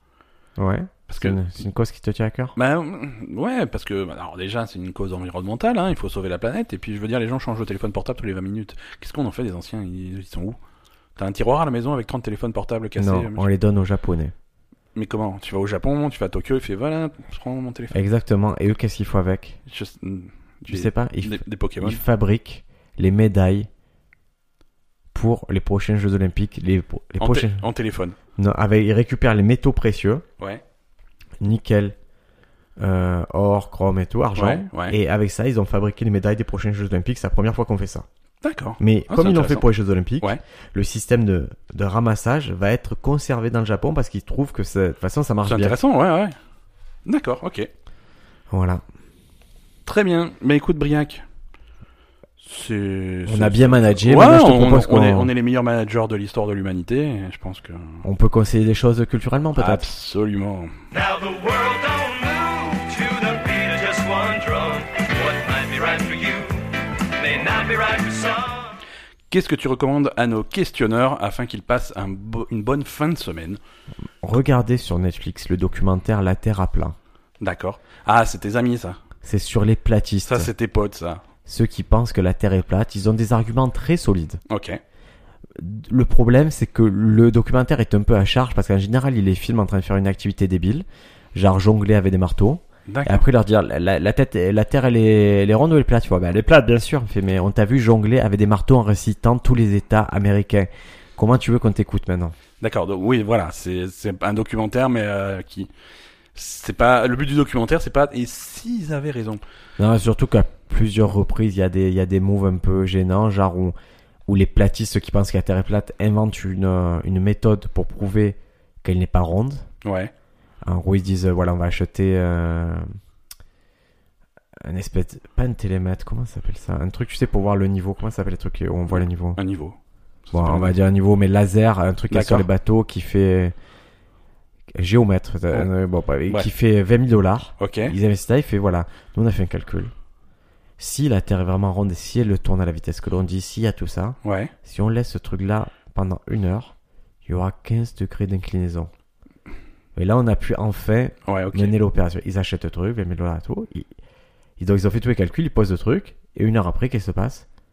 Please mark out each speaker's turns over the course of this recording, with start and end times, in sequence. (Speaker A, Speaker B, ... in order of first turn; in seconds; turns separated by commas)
Speaker A: 0.6-2.5, Speaker B: 1.1-1.4, Speaker B: 2.5-10.6, Speaker B: 11.2-13.5, Speaker A: 13.0-14.3, Speaker B: 14.9-18.0, Speaker A: 17.9-19.6, Speaker B: 19.7-22.0, Speaker A: 20.7-23.7, Speaker A: 25.1-27.6, Speaker B: 27.2-28.2, Speaker A: 28.4-30.2, Speaker A: 31.4-31.9, Speaker A: 32.8-38.0, Speaker B: 34.4-35.0, Speaker B: 38.4-39.7, Speaker A: 38.8-45.8, Speaker B: 45.5-46.4, Speaker B: 47.0-47.7, Speaker A: 48.5-48.8, Speaker B: 49.9-51.2, Speaker B: 52.4-58.0, Speaker A: 53.3-55.3, Speaker A: 58.0-59.9, Speaker B: 59.5-60.8, Speaker C: 60.9-68.8, Speaker B: 69.3-73.6, Speaker A: 74.2-77.0, Speaker B: 77.4-79.0, Speaker A: 79.2-80.5, Speaker B: 80.2-81.2, Speaker A: 81.5-84.4, Speaker B: 84.5-84.8, Speaker A: 85.5-102.3, Speaker B: 92.9-93.2, Speaker B: 102.6-105.7, Speaker B: 106.3-109.4, Speaker A: 109.8-113.7, Speaker A: 114.3-119.7, Speaker B: 119.8-120.1, Speaker A: 120.6-122.9, Speaker A: 124.6-129.4, Speaker B: 128.9-130.7, Speaker A: 130.3-133.5, Speaker B: 132.1-132.5, Speaker A: 134.7-139.9, Speaker B: 137.6-137.9, Speaker A: 140.8-146.7, Speaker B: 144.2-144.5, Speaker A: 147.2-148.9, Speaker A: 149.9-153.9, Speaker B: 151.2-151.7, Speaker A: 154.6-157.4